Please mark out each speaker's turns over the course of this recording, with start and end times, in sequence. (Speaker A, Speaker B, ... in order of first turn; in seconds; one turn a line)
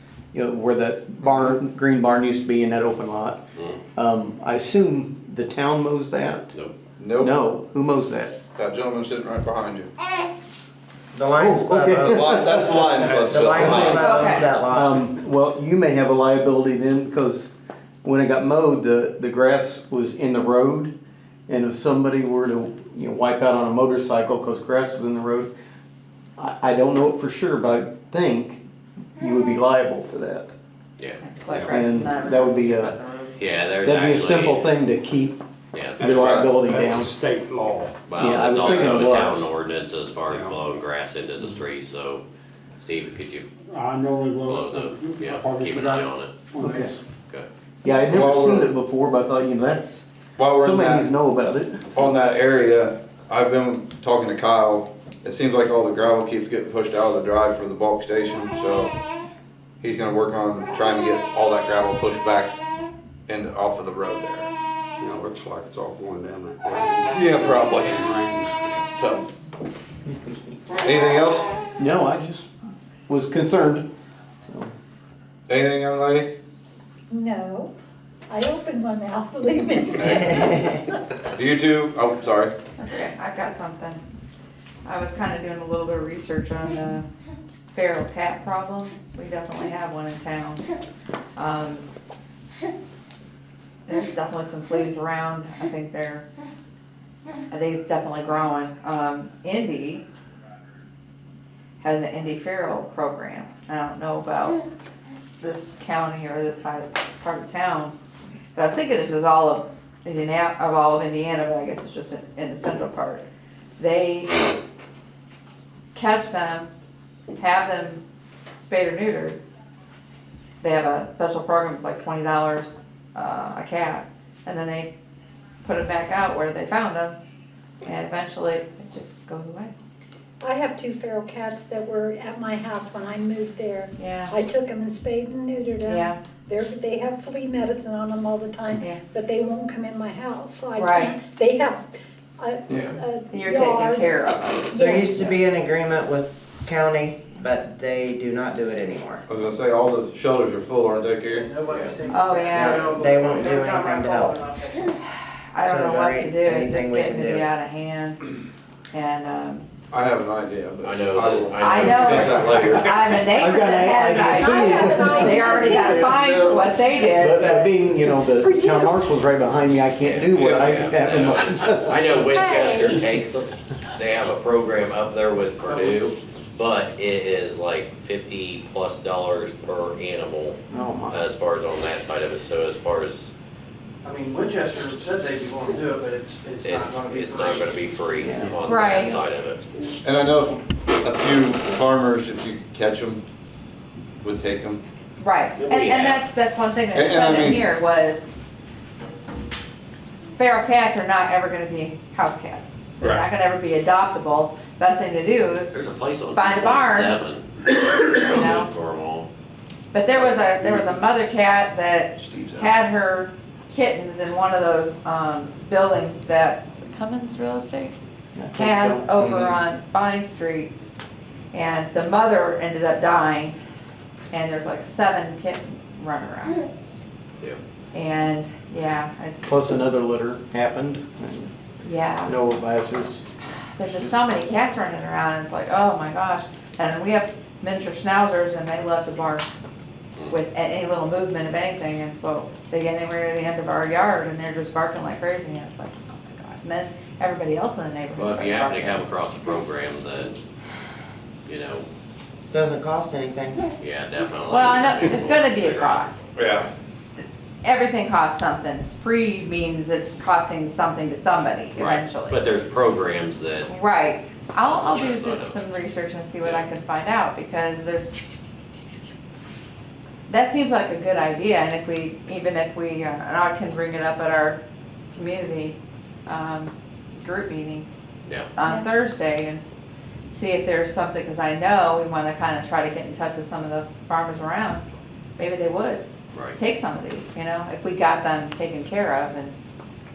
Speaker A: 0.3-3.4
Speaker A: 3.9-6.5
Speaker B: 7.0-7.3
Speaker A: 7.2-8.4
Speaker B: 8.5-9.9
Speaker C: 11.1-15.0
Speaker A: 11.3-17.5
Speaker B: 12.0-14.1
Speaker D: 13.9-14.4
Speaker E: 14.1-14.4
Speaker A: 18.0-20.9
Speaker A: 21.5-25.5
Speaker A: 26.4-28.6
Speaker A: 29.2-30.5
Speaker E: 31.0-31.9
Speaker D: 31.2-32.6
Speaker A: 31.7-32.9
Speaker C: 32.7-33.4
Speaker E: 33.4-34.7
Speaker A: 33.8-35.4
Speaker E: 35.7-36.3
Speaker A: 36.0-37.1
Speaker F: 36.0-38.0
Speaker B: 36.2-36.5
Speaker E: 38.0-42.2
Speaker A: 38.1-39.5
Speaker B: 38.6-39.0
Speaker F: 40.2-40.6
Speaker E: 42.8-43.5
Speaker F: 43.7-47.0
Speaker E: 44.4-46.4
Speaker A: 46.6-47.0
Speaker A: 47.8-52.1
Speaker B: 48.1-48.7
Speaker B: 50.4-51.1
Speaker B: 51.9-59.0
Speaker B: 59.8-62.5
Speaker B: 63.3-64.5
Speaker F: 65.0-68.6
Speaker B: 67.1-68.1
Speaker B: 68.9-69.2
Speaker B: 70.8-71.5
Speaker A: 71.8-72.5
Speaker A: 73.1-73.9
Speaker A: 74.5-74.7
Speaker B: 75.5-76.3
Speaker G: 77.1-77.7
Speaker G: 78.3-81.0
Speaker B: 81.3-82.5
Speaker D: 82.8-84.0
Speaker D: 84.8-87.1
Speaker D: 87.7-90.6
Speaker D: 91.3-91.8
Speaker D: 93.8-96.2
Speaker D: 97.5-100.0
Speaker D: 101.8-104.6
Speaker D: 105.4-107.9
Speaker D: 108.5-113.2
Speaker D: 113.8-114.3
Speaker D: 115.9-116.7
Speaker D: 117.4-118.0
Speaker D: 118.5-119.4
Speaker D: 120.6-124.9
Speaker D: 125.6-127.2
Speaker D: 127.8-129.7
Speaker G: 130.4-141.9
Speaker D: 134.0-134.3
Speaker D: 135.8-136.2
Speaker D: 140.8-141.2
Speaker G: 142.4-145.1
Speaker E: 142.7-143.0
Speaker D: 143.3-145.3
Speaker C: 144.7-149.2
Speaker B: 149.3-151.5
Speaker H: 151.3-155.0
Speaker E: 151.6-152.0
Speaker D: 152.0-153.0
Speaker C: 152.4-154.4
Speaker D: 155.5-158.3
Speaker C: 155.6-157.5
Speaker D: 158.9-159.7
Speaker B: 159.9-163.0
Speaker E: 160.8-162.7
Speaker D: 161.6-167.8
Speaker A: 163.3-166.2
Speaker G: 163.8-169.2
Speaker A: 167.1-172.4
Speaker E: 170.0-183.3
Speaker B: 170.3-171.9
Speaker G: 172.3-173.0
Speaker A: 180.7-181.2
Speaker H: 184.0-188.0
Speaker E: 186.6-189.7
Speaker A: 188.2-188.6
Speaker D: 188.7-189.2
Speaker B: 190.0-193.2
Speaker B: 194.2-194.8
Speaker D: 195.2-198.3
Speaker E: 195.6-196.2
Speaker B: 196.9-197.6
Speaker D: 200.4-205.8
Speaker E: 205.7-209.3
Speaker D: 206.3-207.2
Speaker D: 208.1-208.7
Speaker D: 209.9-217.9
Speaker B: 212.2-212.7
Speaker A: 218.3-219.3
Speaker D: 218.5-220.7
Speaker D: 221.5-223.6
Speaker D: 224.3-226.6
Speaker D: 227.9-229.6
Speaker A: 229.4-231.5
Speaker D: 231.8-232.3
Speaker A: 232.2-233.2
Speaker D: 233.7-239.4
Speaker D: 240.3-249.1
Speaker E: 248.2-250.4
Speaker E: 251.4-251.9
Speaker C: 252.5-253.7
Speaker E: 253.8-256.3
Speaker D: 254.5-256.3
Speaker B: 256.4-256.7
Speaker D: 257.6-262.4
Speaker E: 261.8-263.7
Speaker D: 263.7-268.1
Speaker E: 264.6-265.6
Speaker E: 266.4-266.6
Speaker D: 270.3-274.6
Speaker D: 275.1-277.9
Speaker D: 278.5-279.7
Speaker G: 278.6-278.9
Speaker D: 280.3-284.8
Speaker D: 285.4-289.5